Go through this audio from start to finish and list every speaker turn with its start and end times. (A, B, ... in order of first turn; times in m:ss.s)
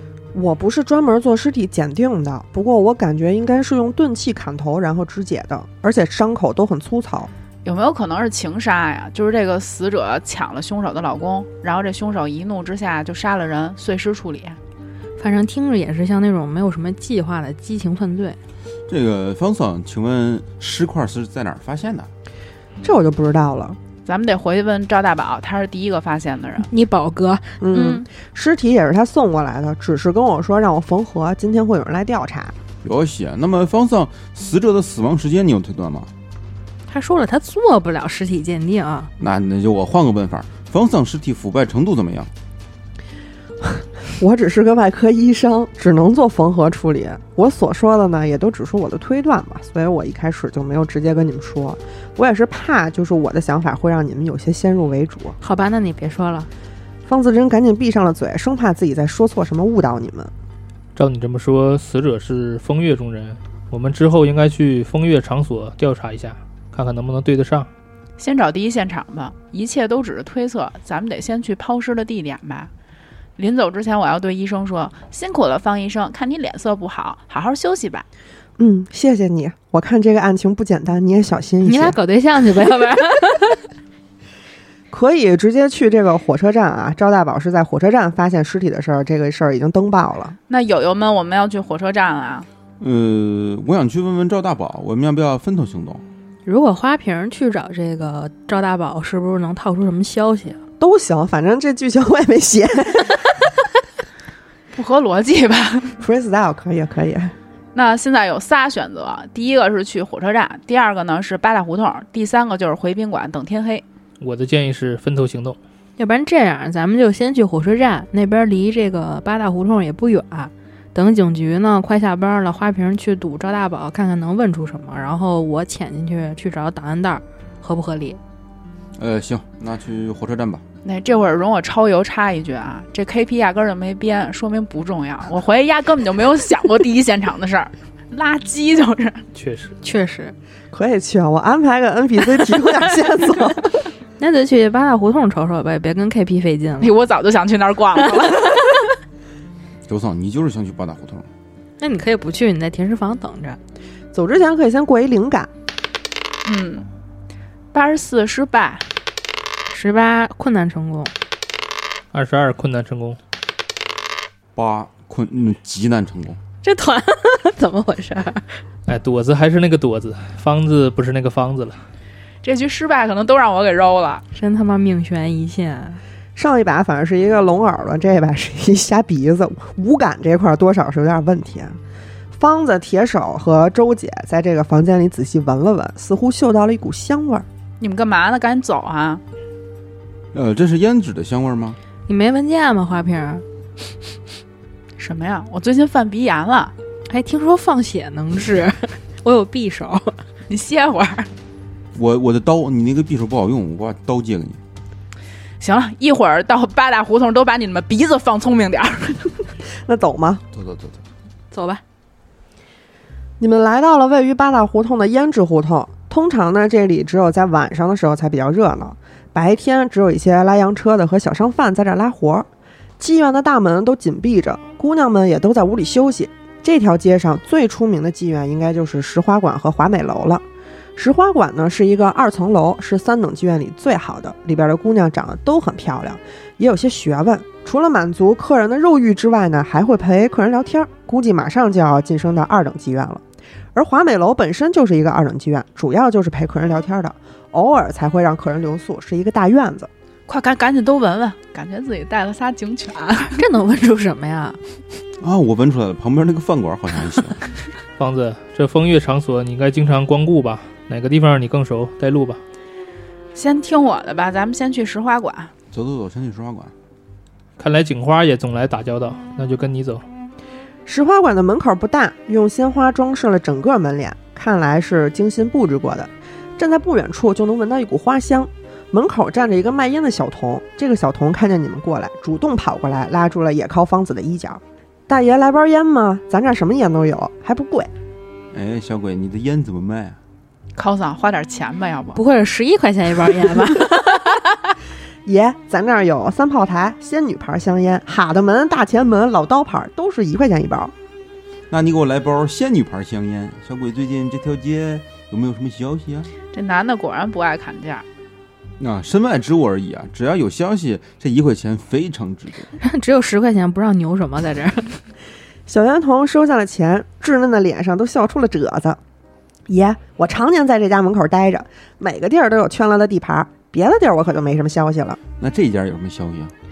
0:00.3-0:07.3 A
0:07.6-0:14.6 B
0:15.2-0:18.4 C
0:18.9-0:22.1 D
0:22.8-0:23.8 A
0:24.0-0:26.7 B
0:26.7-0:28.0 C
0:27.6-0:32.5 A
0:32.8-0:36.1 D
0:36.9-0:39.1 C
0:39.2-0:42.3 D
0:43.6-0:55.4 A
0:55.4-0:56.5 C
0:57.1-1:00.3 A
1:00.9-1:07.7 E
1:08.2-1:12.7 B
1:13.4-1:18.0 B
1:18.6-1:22.0 A
1:21.6-1:23.6 C
1:24.9-1:30.4 A
1:30.5-1:32.5 B
1:32.8-1:36.0 D
1:36.4-1:40.6 C
1:40.8-1:43.4 A
1:44.7-1:46.0 B
1:46.0-1:47.3 A
1:47.7-1:53.8 B
1:54.2-1:55.6 E
1:56.0-2:08.2 C
2:09.0-2:10.6 D
2:10.8-2:19.2 B
2:19.3-2:19.7 E
2:19.8-2:20.3 C
2:20.7-2:23.8 A
2:24.2-2:26.9 C
2:26.8-2:28.6 B
2:29.9-2:31.3 D
2:31.8-2:33.6 C
2:34.1-2:35.5 A
2:36.4-2:36.9 B
2:37.7-2:38.9 B
2:39.7-2:41.1 C
2:42.1-2:43.2 E
2:44.6-2:46.4 D
2:46.6-2:48.6 C
2:48.9-2:51.8 E
2:52.4-2:54.2 B
2:54.3-2:56.0 C
2:56.4-3:01.8 A
3:02.3-3:07.4 A
3:07.8-3:09.2 B
3:10.3-3:11.8 D
3:12.1-3:13.4 C
3:15.0-3:16.7 B
3:17.1-3:20.2 C
3:20.5-3:21.3 B
3:21.9-3:24.6 D
3:25.6-3:29.4 B
3:29.8-3:30.4 A
3:30.5-3:31.0 D
3:31.5-3:31.8 C
3:33.4-3:42.5 A
3:43.0-3:50.4 A
3:51.0-4:03.2 A
4:03.7-4:09.9 A
4:10.3-4:13.4 B
4:13.4-4:14.6 C
4:15.2-4:17.4 D
4:18.0-4:22.4 E
4:23.3-4:25.5 B
4:25.7-4:26.7 D
4:27.6-4:30.0 E
4:30.8-4:47.9 A
4:48.5-4:50.2 D
4:50.8-4:52.2 B
4:52.1-4:54.2 C
4:55.2-5:00.9 A
5:01.7-5:06.3 D
5:06.5-5:08.0 B
5:08.8-5:12.7 D
5:12.8-5:15.0 C
5:15.7-5:19.0 A
5:19.7-5:25.2 A
5:25.4-5:26.5 D